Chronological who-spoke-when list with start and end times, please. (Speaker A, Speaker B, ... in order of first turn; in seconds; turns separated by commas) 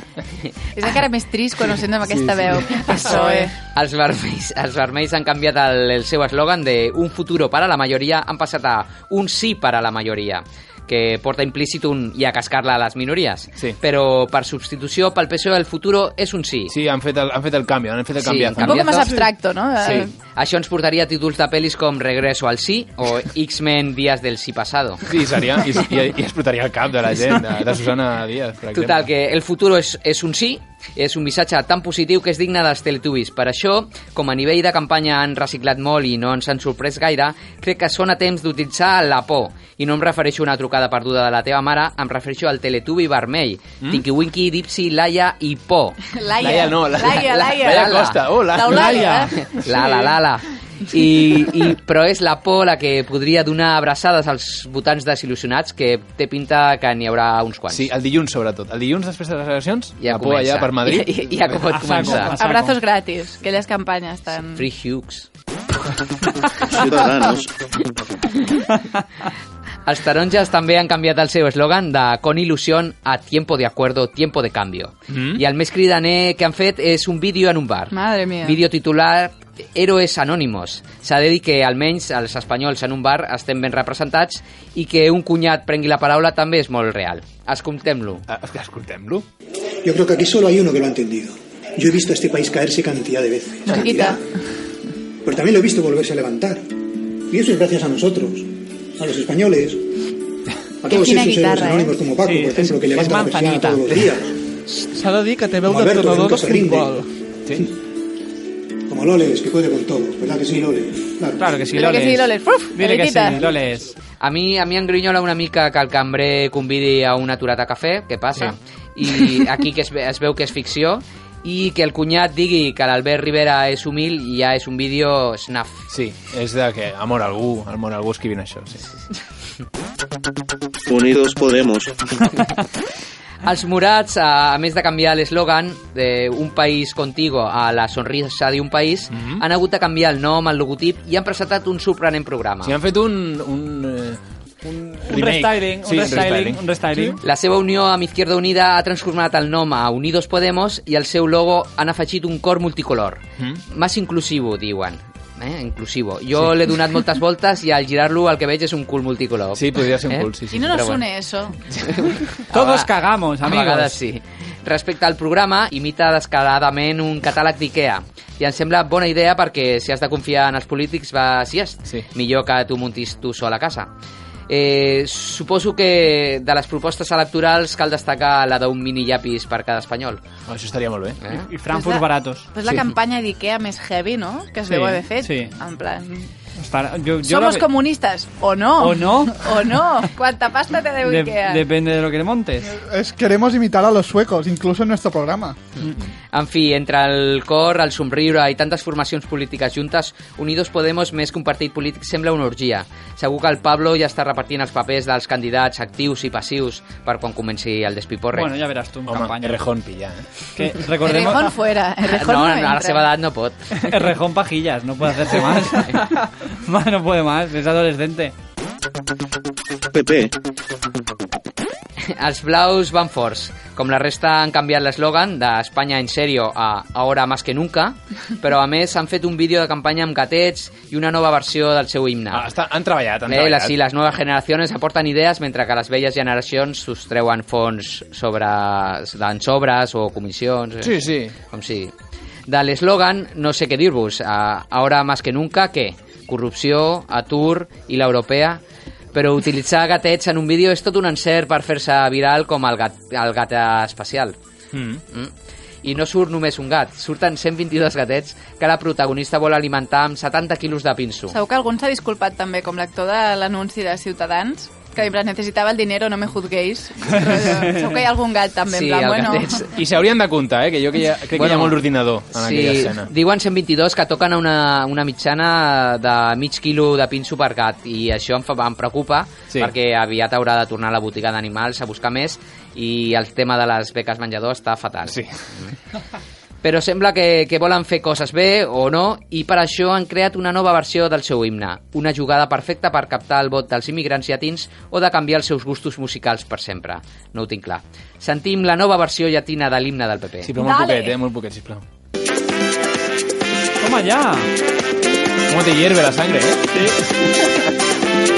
Speaker A: 0.8-3.5, Speaker B: 2.1-3.3, Speaker C: 3.7-16.7, Speaker B: 16.7-19.2, Speaker C: 18.2-19.2, Speaker A: 18.6-20.1, Speaker B: 19.8-20.1, Speaker C: 20.4-25.0, Speaker B: 25.1-29.1, Speaker C: 28.7-46.0, Speaker A: 46.1-48.0, Speaker B: 46.4-50.1, Speaker C: 47.1-48.4, Speaker A: 48.5-49.4, Speaker D: 48.7-49.4, Speaker C: 49.4-57.9, Speaker B: 57.7-61.6, Speaker C: 60.0-62.4, Speaker D: 61.7-62.8, Speaker A: 62.4-64.7, Speaker C: 64.5-65.3, Speaker E: 66.7-67.5, Speaker C: 69.9-88.2, Speaker B: 75.1-75.4, Speaker A: 77.9-78.6, Speaker B: 88.3-89.2, Speaker F: 89.8-94.2, Speaker A: 93.7-94.2, Speaker F: 95.2-99.9, Speaker F: 100.8-104.3, Speaker A: 100.9-102.0, Speaker D: 102.3-104.0, Speaker G: 104.9-107.1, Speaker F: 105.7-107.0, Speaker F: 108.9-111.6, Speaker D: 111.4-114.0, Speaker A: 111.7-113.4, Speaker F: 113.4-113.8, Speaker C: 114.2-125.8, Speaker B: 125.9-128.8, Speaker E: 130.9-132.1, Speaker C: 133.4-142.8, Speaker B: 139.1-139.4, Speaker B: 142.6-146.6, Speaker D: 145.0-147.2, Speaker C: 147.2-161.1, Speaker B: 156.4-156.8, Speaker B: 159.6-160.8, Speaker A: 160.5-161.6, Speaker B: 161.7-162.1, Speaker C: 161.9-162.9, Speaker D: 162.5-164.0, Speaker C: 163.4-173.9, Speaker C: 174.5-180.2, Speaker B: 180.5-181.2, Speaker D: 181.3-182.5, Speaker A: 181.7-186.3, Speaker D: 184.7-185.5, Speaker D: 186.6-187.7, Speaker A: 187.2-191.6, Speaker D: 188.8-189.5, Speaker D: 191.1-192.7, Speaker G: 192.7-195.6, Speaker C: 195.8-208.5, Speaker D: 208.3-209.6, Speaker B: 209.1-210.3, Speaker D: 210.6-211.5, Speaker A: 211.0-213.1, Speaker C: 212.1-213.8, Speaker D: 213.8-218.3, Speaker E: 219.9-220.3, Speaker C: 222.2-232.5, Speaker B: 232.3-233.8, Speaker C: 233.3-241.9, Speaker B: 240.8-241.3, Speaker C: 242.5-248.6, Speaker C: 249.1-254.4, Speaker B: 254.7-255.0, Speaker C: 255.8-261.4, Speaker A: 261.3-269.6, Speaker C: 268.7-269.7, Speaker B: 269.7-273.1, Speaker C: 271.3-271.8, Speaker C: 272.3-285.7, Speaker B: 285.1-285.4, Speaker C: 286.6-300.5, Speaker B: 300.4-301.8, Speaker D: 303.8-304.5, Speaker B: 305.5-306.7, Speaker D: 306.7-307.0